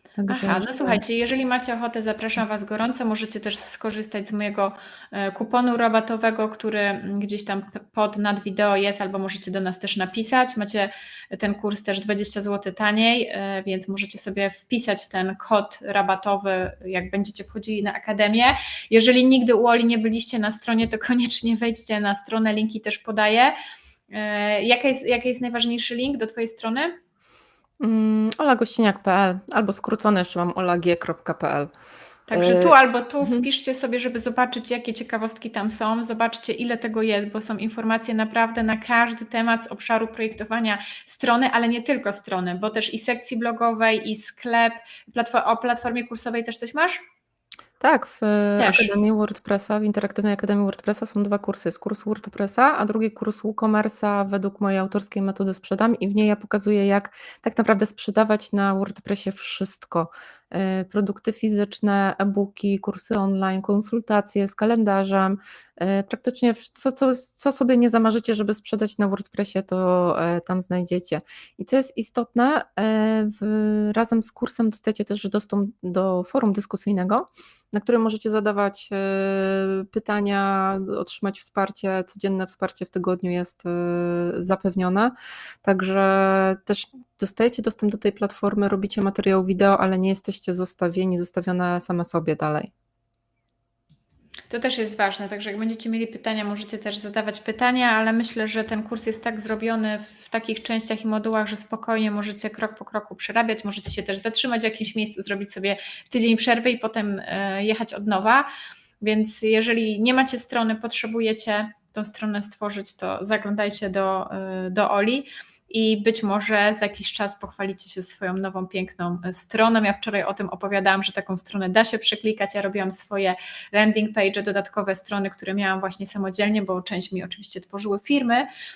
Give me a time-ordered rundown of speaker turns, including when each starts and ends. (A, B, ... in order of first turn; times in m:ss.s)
0:00.2-0:01.0 A
0:00.3-0:23.6 B
0:24.1-0:27.0 B
0:27.8-0:31.7 A
0:32.3-0:47.0 B
0:32.3-0:33.4 A
0:47.8-1:32.7 A
0:48.6-0:48.9 B
1:34.5-1:48.5 B
1:49.0-2:08.5 B